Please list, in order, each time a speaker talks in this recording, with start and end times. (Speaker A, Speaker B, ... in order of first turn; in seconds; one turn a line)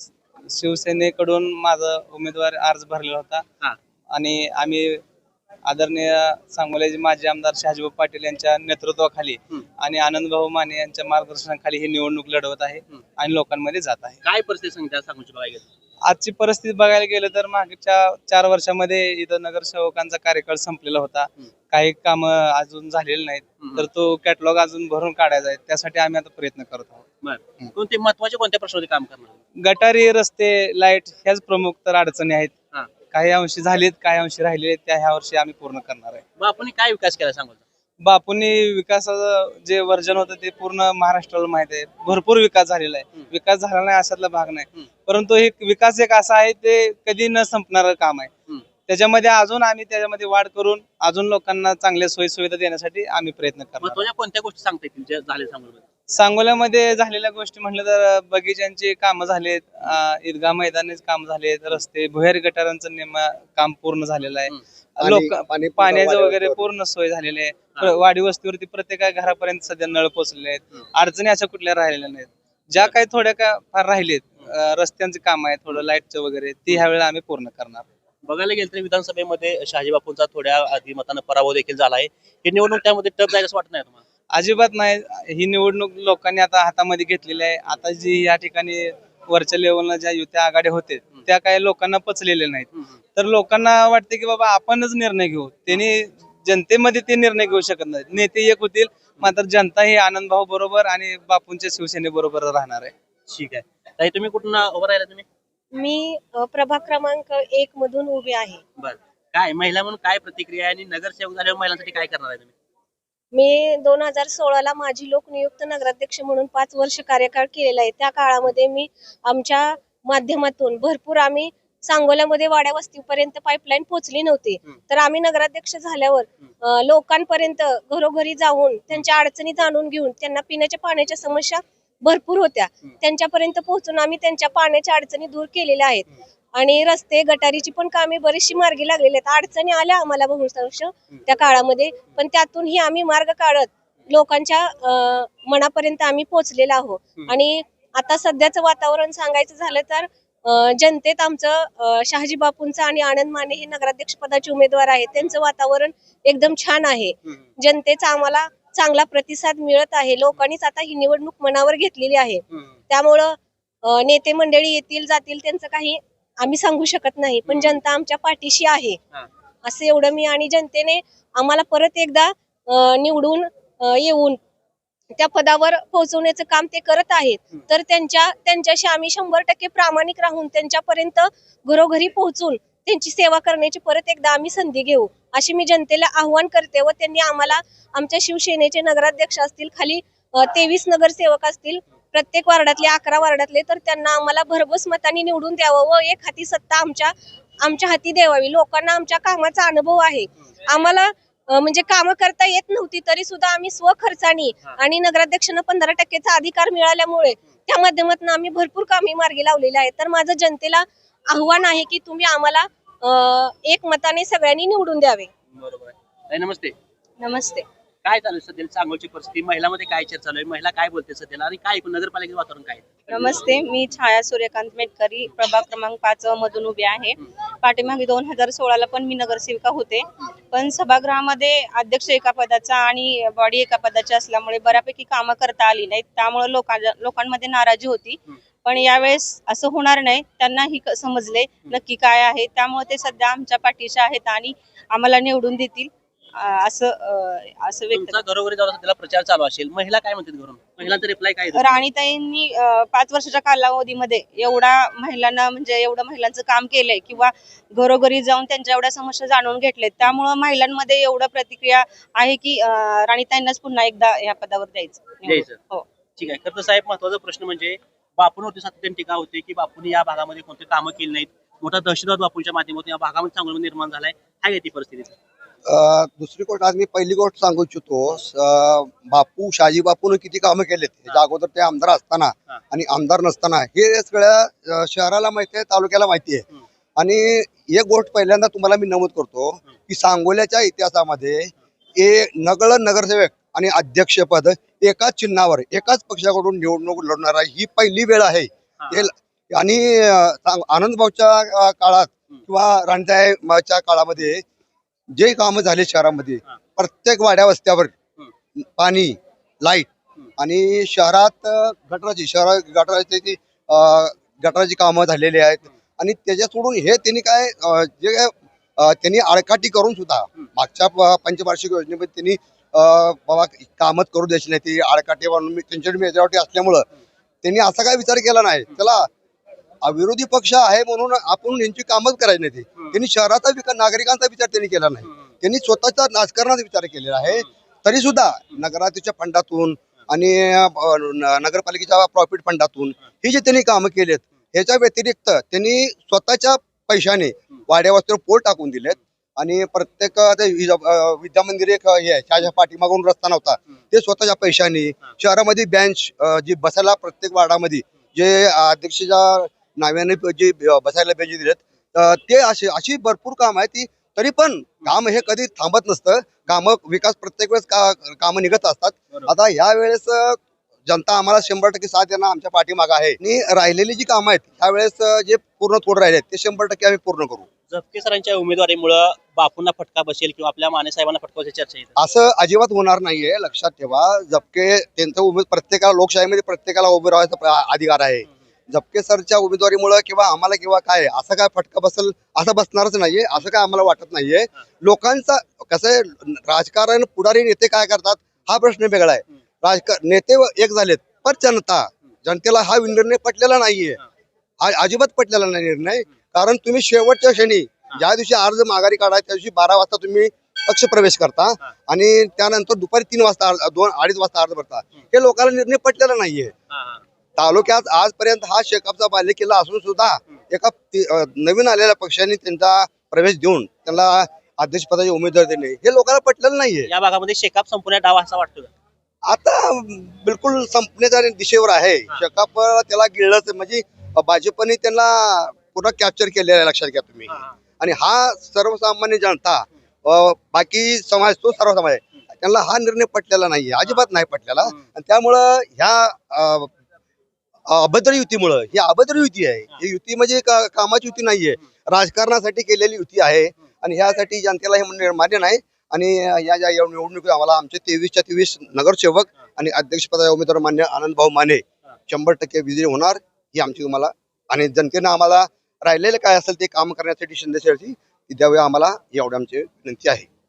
Speaker A: 0.4-3.4
Speaker A: 4.1-5.0
Speaker A: 5.7-14.2
Speaker B: 14.2-15.7
Speaker A: 16.1-27.1
Speaker B: 27.2-29.4
Speaker A: 29.6-32.5
Speaker A: 33.1-36.2
Speaker B: 36.4-37.6
Speaker A: 38.0-48.3
Speaker A: 48.9-54.0
Speaker B: 53.8-55.8
Speaker A: 56.1-77.8
Speaker C: 65.0-66.7
Speaker B: 78.2-84.0
Speaker A: 84.3-102.9
Speaker B: 103.3-105.3
Speaker D: 105.7-108.6
Speaker B: 108.8-112.5
Speaker D: 113.3-169.0
Speaker B: 167.5-167.8
Speaker D: 169.6-174.4
Speaker D: 175.2-215.3
Speaker B: 215.5-216.8
Speaker E: 217.2-217.7
Speaker B: 218.0-223.4
Speaker E: 223.1-248.2
Speaker B: 247.9-251.8
Speaker E: 251.5-265.9
Speaker B: 265.2-265.6
Speaker B: 266.2-275.2
Speaker C: 275.7-304.4
Speaker B: 298.8-299.1
Speaker C: 305.1-307.9
Speaker C: 308.6-326.9
Speaker C: 327.4-329.1
Speaker C: 329.8-377.5
Speaker B: 377.7-381.9
Speaker C: 382.0-404.0
Speaker C: 404.6-416.5
Speaker B: 416.7-417.0
Speaker C: 417.4-426.9
Speaker B: 426.9-428.7
Speaker C: 429.3-446.7
Speaker C: 447.7-470.3